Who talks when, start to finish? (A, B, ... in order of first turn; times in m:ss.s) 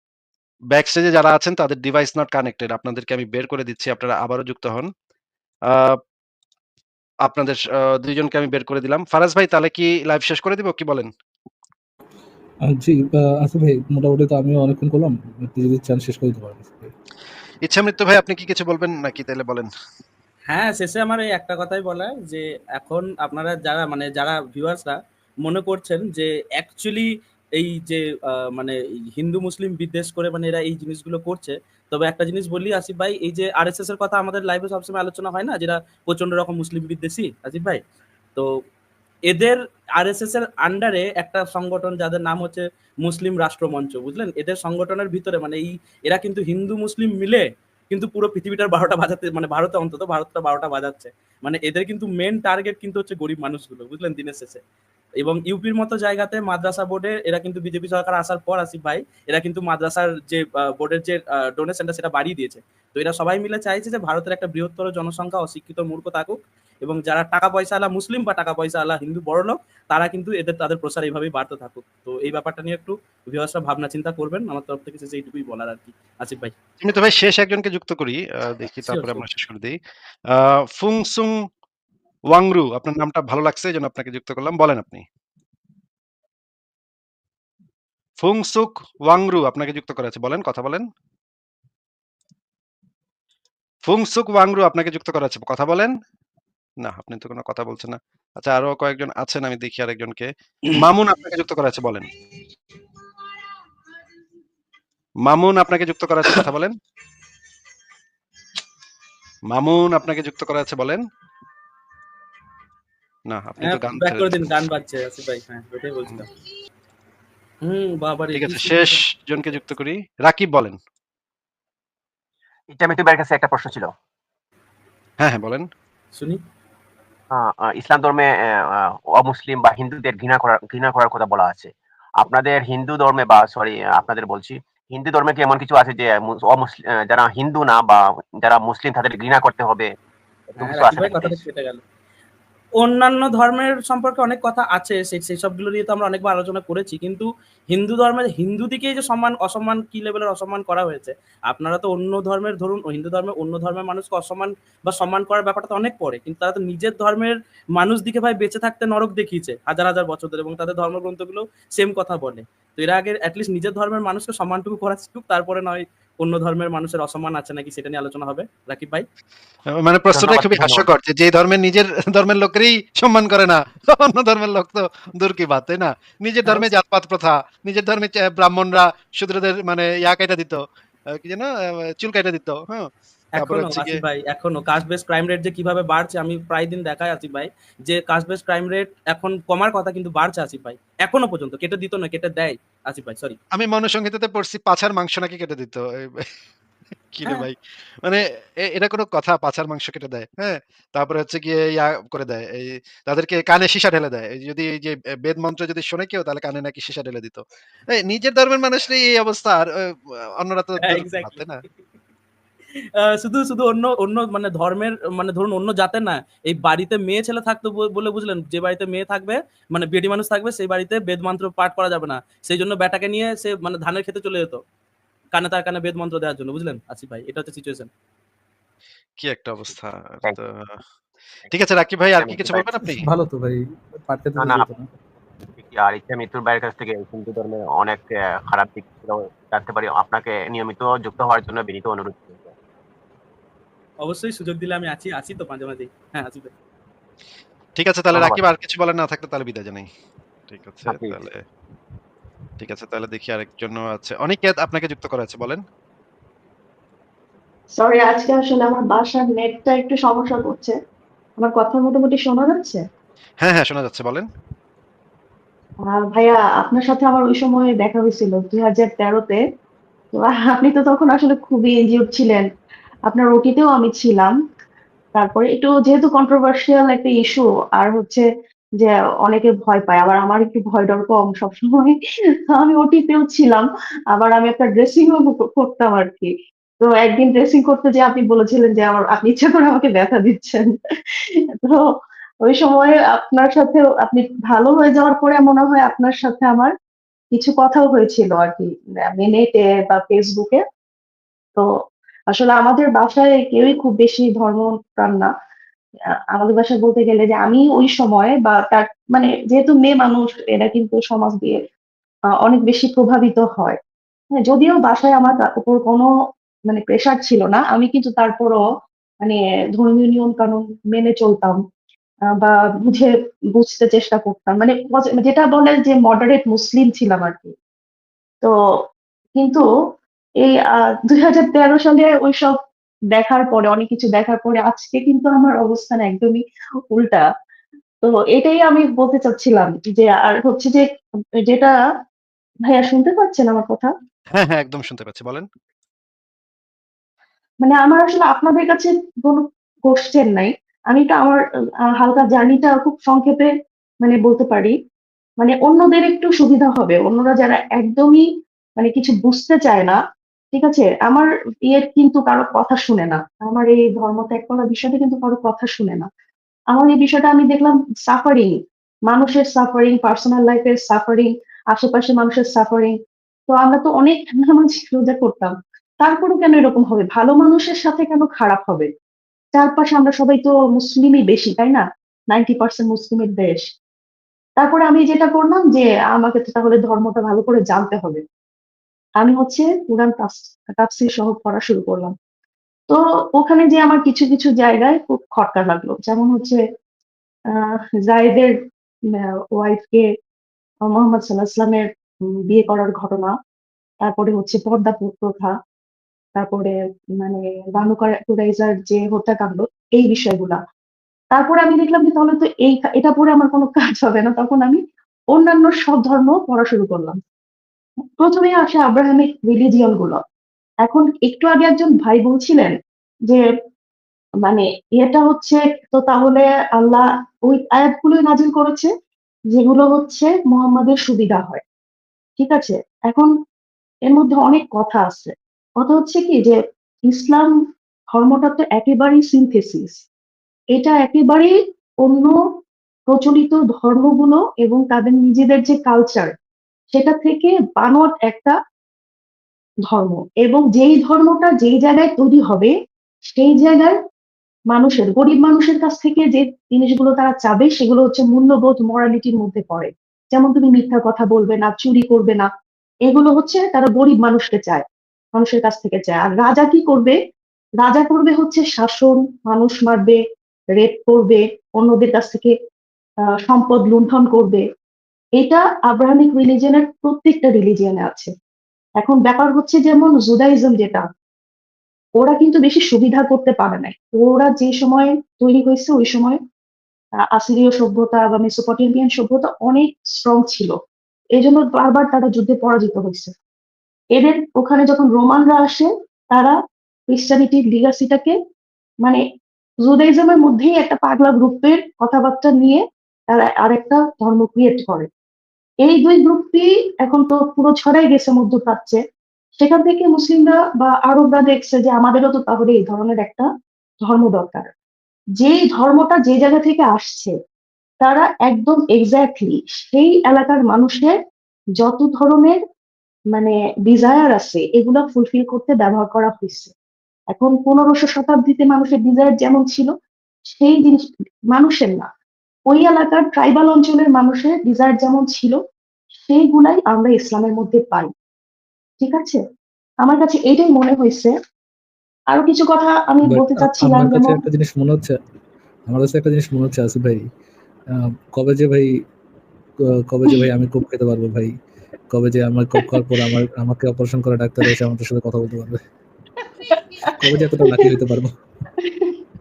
0:00.7-0:04.9 A
0:05.7-0:06.0 A
0:07.2-0:11.1 A
0:12.6-0:16.9 B
0:17.6-0:19.7 A
0:20.5-0:37.8 C
0:39.3-0:54.6 C
0:55.2-1:16.5 C
1:16.8-1:19.8 A
1:18.8-1:19.2 C
1:20.3-1:21.3 A
1:22.3-1:25.0 A
1:28.2-1:30.9 A
1:33.9-1:35.9 A
1:36.8-1:42.1 A
1:45.2-1:46.7 A
1:49.5-1:51.0 A
1:53.3-1:54.3 A
1:53.6-1:56.3 C
1:57.6-1:59.0 C
1:58.3-2:00.8 A
2:02.7-2:03.9 D
2:05.2-2:05.7 A
2:07.3-2:19.9 D
2:20.5-2:21.4 D
2:20.6-2:21.8 C
2:22.8-2:49.0 C
2:49.8-3:00.6 A
2:50.1-2:50.9 D
3:01.1-3:04.0 A
3:03.4-3:13.4 C
3:13.5-3:15.8 A
3:17.1-3:27.4 A
3:27.9-3:31.6 A
3:30.8-3:31.4 C
3:33.2-3:44.6 C
3:45.3-3:47.9 C
3:49.2-3:50.8 A
3:49.7-3:50.4 D
3:51.5-3:53.0 A
3:52.2-3:52.7 D
3:52.9-3:54.9 B
3:54.4-3:54.7 D
3:55.6-4:02.5 D
4:04.0-4:06.5 C
4:07.8-4:09.9 A
4:08.1-4:08.4 D
4:10.5-4:11.4 A
4:10.9-4:11.2 D
4:12.6-4:15.6 A
4:17.8-4:20.7 E
4:21.4-4:22.8 E
4:23.4-4:24.2 A
4:25.9-4:29.4 E
4:30.1-4:32.5 E
4:33.1-4:34.3 E
4:35.1-4:38.2 E
4:38.8-4:42.0 E
4:42.5-4:50.7 E
4:52.4-4:56.7 E
4:57.3-5:00.6 E
5:02.3-5:05.3 E
5:06.3-5:11.6 E
5:12.4-5:13.8 E
5:14.4-5:16.1 E
5:16.7-5:18.6 E
5:19.2-5:21.6 E
5:22.4-5:27.5 E
5:29.4-5:29.6 E
5:30.4-5:32.5 E
5:33.1-5:36.4 E
5:36.9-5:37.2 E
5:38.0-5:40.8 E
5:41.5-5:41.7 E
5:42.7-5:43.9 E
5:44.4-5:45.5 A
5:47.6-5:51.4 E
5:52.0-5:53.5 E
5:54.0-5:54.7 E
5:55.4-5:58.2 E
5:58.8-6:00.0 E
6:00.5-6:06.1 E
6:06.7-6:08.5 E
6:09.1-6:12.9 E
6:13.5-6:18.9 E
6:19.5-6:23.6 E
6:24.6-6:28.2 E
6:29.2-6:32.1 E
6:32.9-6:36.6 E
6:37.5-6:38.5 E
6:39.1-6:40.0 E
6:40.9-6:41.8 E
6:42.5-6:43.3 E
6:44.0-6:45.5 E
6:46.4-6:50.6 E
6:51.3-6:54.8 E
6:55.3-6:57.2 E
6:58.2-7:00.2 E
7:00.8-7:02.7 E
7:04.4-7:08.9 E
7:09.5-7:11.6 E
7:12.4-7:13.3 E
7:14.1-7:16.6 E
7:17.1-7:17.5 E
7:18.1-7:20.0 E
7:20.7-7:21.5 E
7:22.0-7:22.3 E
7:23.1-7:26.3 E
7:26.9-7:28.5 E
7:29.9-7:32.7 E
7:33.3-7:33.9 E
7:34.7-7:42.5 E
7:43.0-7:44.8 E
7:45.4-7:47.2 E
7:47.8-7:50.2 E
7:50.8-7:52.5 E
7:53.4-7:54.6 E
7:55.4-7:58.3 E
7:59.0-8:01.0 E
8:02.2-8:06.4 E
8:07.3-8:10.7 E
8:11.4-8:13.3 E
8:14.1-8:16.6 E
8:17.1-8:18.3 E
8:19.8-8:25.1 E
8:25.8-8:29.0 E
8:29.6-8:33.5 E
8:34.0-8:34.7 E
8:35.4-8:37.3 E
8:38.0-8:41.2 E
8:41.8-8:42.6 E
8:43.3-8:46.7 E
8:47.3-8:49.9 E
8:50.5-8:51.0 E
8:51.5-8:52.0 E
8:52.7-8:55.6 E
8:56.2-8:58.1 E
8:59.0-8:59.4 E
9:00.0-9:01.3 E
9:02.3-9:04.4 E
9:03.2-9:05.2 B
9:05.9-9:07.3 B
9:07.9-9:09.0 B
9:09.8-9:11.6 B
9:12.1-9:15.8 B
9:16.7-9:17.1 E
9:17.2-9:18.4 B
9:18.8-9:19.1 E